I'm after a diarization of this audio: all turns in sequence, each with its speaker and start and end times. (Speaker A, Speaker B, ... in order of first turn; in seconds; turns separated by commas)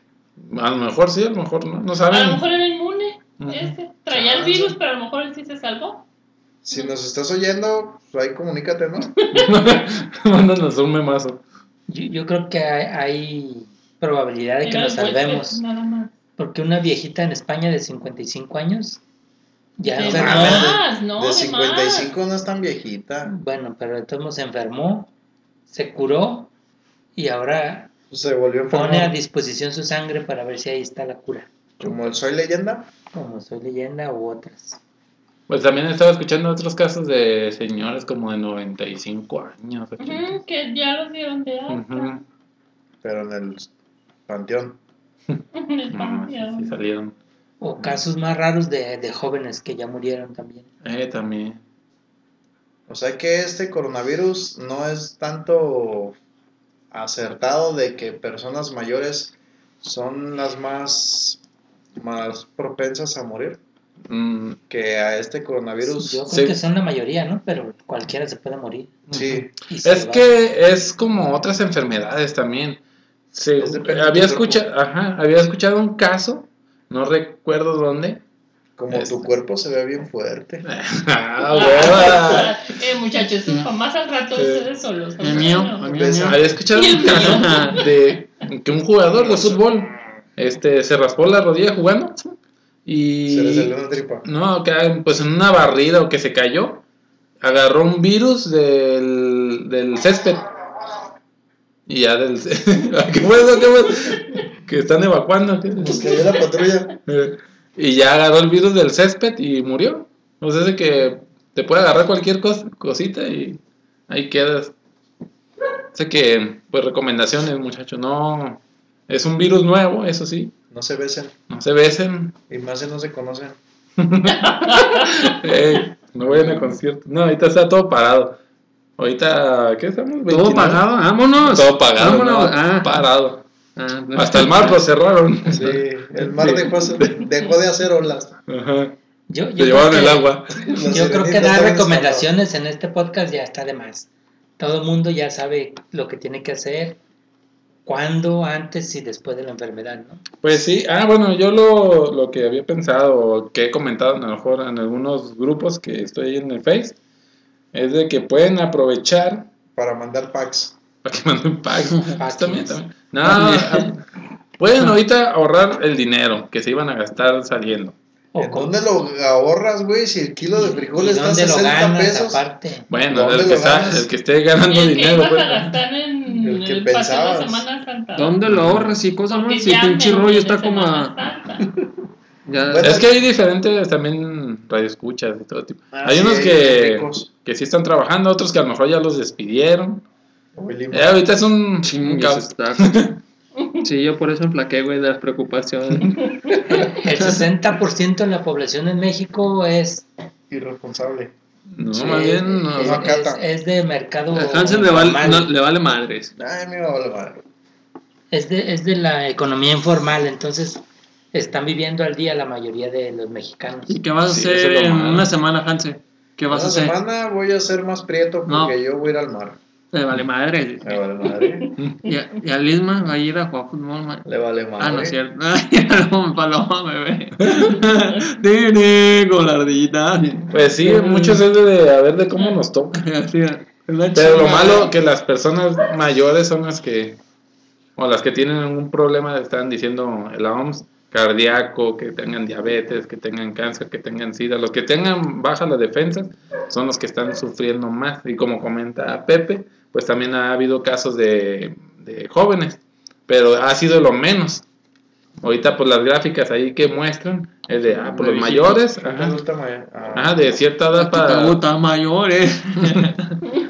Speaker A: 0.4-2.4, Speaker B: 2.1-6.0, Speaker A: 3.4-3.8, Speaker C: 4.1-4.8, Speaker C: 6.6-9.1, Speaker B: 9.2-9.5, Speaker A: 9.3-11.4, Speaker D: 11.9-15.6, Speaker B: 14.6-16.1, Speaker D: 16.4-19.0, Speaker D: 19.8-20.7, Speaker B: 19.9-22.1, Speaker C: 20.1-23.3, Speaker D: 23.2-25.1, Speaker D: 25.7-26.5, Speaker D: 27.1-27.9, Speaker C: 28.1-29.1, Speaker D: 28.7-31.5, Speaker C: 31.8-32.9, Speaker D: 33.1-34.8, Speaker A: 35.5-40.4, Speaker B: 40.0-42.1, Speaker A: 41.7-42.2, Speaker C: 43.0-43.7, Speaker C: 44.3-44.8, Speaker B: 45.5-46.8, Speaker A: 45.9-47.1, Speaker D: 47.6-50.6, Speaker A: 50.8-51.6, Speaker C: 52.9-56.2, Speaker C: 56.9-61.4, Speaker C: 62.0-63.6, Speaker A: 64.1-64.6, Speaker C: 64.7-66.2, Speaker D: 65.8-68.9, Speaker A: 66.2-66.5, Speaker A: 69.1-72.8, Speaker C: 69.1-69.5, Speaker D: 69.7-70.3, Speaker A: 73.3-78.2, Speaker C: 73.6-74.6, Speaker C: 78.8-80.6, Speaker A: 78.9-79.2, Speaker A: 80.6-82.5, Speaker B: 81.5-85.8, Speaker A: 84.3-84.7, Speaker E: 85.2-86.5, Speaker C: 85.8-86.5, Speaker A: 86.2-92.3, Speaker B: 86.7-88.0, Speaker E: 87.1-87.8, Speaker C: 89.1-89.6, Speaker A: 92.8-96.8, Speaker C: 93.2-94.2, Speaker A: 97.4-100.5, Speaker A: 101.9-106.2, Speaker C: 105.8-107.0, Speaker A: 107.0-114.7, Speaker A: 115.9-120.5, Speaker C: 120.7-121.3, Speaker A: 121.5-122.3, Speaker C: 122.5-123.6, Speaker A: 124.0-128.4, Speaker B: 124.4-125.3, Speaker C: 126.2-126.7, Speaker A: 129.0-130.8, Speaker E: 130.3-133.1, Speaker A: 131.4-133.4, Speaker E: 133.8-134.8, Speaker A: 134.1-137.2, Speaker C: 135.5-138.4, Speaker A: 138.5-138.9, Speaker D: 139.3-144.1, Speaker A: 139.6-140.6, Speaker C: 140.5-142.3, Speaker D: 144.6-147.0, Speaker D: 147.8-150.2, Speaker A: 150.4-156.9, Speaker A: 157.7-159.5, Speaker C: 159.7-160.8, Speaker A: 161.0-164.0, Speaker D: 162.1-162.8, Speaker E: 163.2-163.9, Speaker A: 164.6-167.9, Speaker D: 168.3-168.7, Speaker C: 168.4-172.4, Speaker D: 170.5-172.9, Speaker A: 172.9-175.8, Speaker C: 173.1-174.1, Speaker B: 174.7-178.4, Speaker C: 176.4-177.7, Speaker E: 178.1-181.2, Speaker A: 178.5-179.0, Speaker B: 179.3-181.7, Speaker E: 182.4-183.0, Speaker C: 182.7-183.1, Speaker A: 182.8-190.0, Speaker C: 185.9-187.3, Speaker C: 190.5-191.2, Speaker A: 190.9-193.1, Speaker E: 191.8-193.1, Speaker E: 193.8-196.6, Speaker D: 196.7-200.1, Speaker C: 200.5-201.3, Speaker A: 201.7-203.0, Speaker D: 201.9-205.5, Speaker C: 202.8-203.4, Speaker E: 204.3-206.3, Speaker C: 206.3-207.4, Speaker D: 208.3-210.8, Speaker D: 211.3-214.0, Speaker E: 213.9-216.9, Speaker A: 214.2-215.3, Speaker C: 216.5-219.6, Speaker E: 218.5-218.8, Speaker E: 219.9-221.0, Speaker C: 220.8-221.7, Speaker E: 222.0-224.2, Speaker C: 224.2-225.2, Speaker E: 224.8-231.4, Speaker A: 230.5-233.0, Speaker E: 232.9-234.9, Speaker A: 234.1-237.2, Speaker A: 237.9-254.6, Speaker A: 255.4-259.4, Speaker E: 258.0-258.8, Speaker C: 259.0-260.6, Speaker A: 260.1-261.6, Speaker E: 261.0-263.4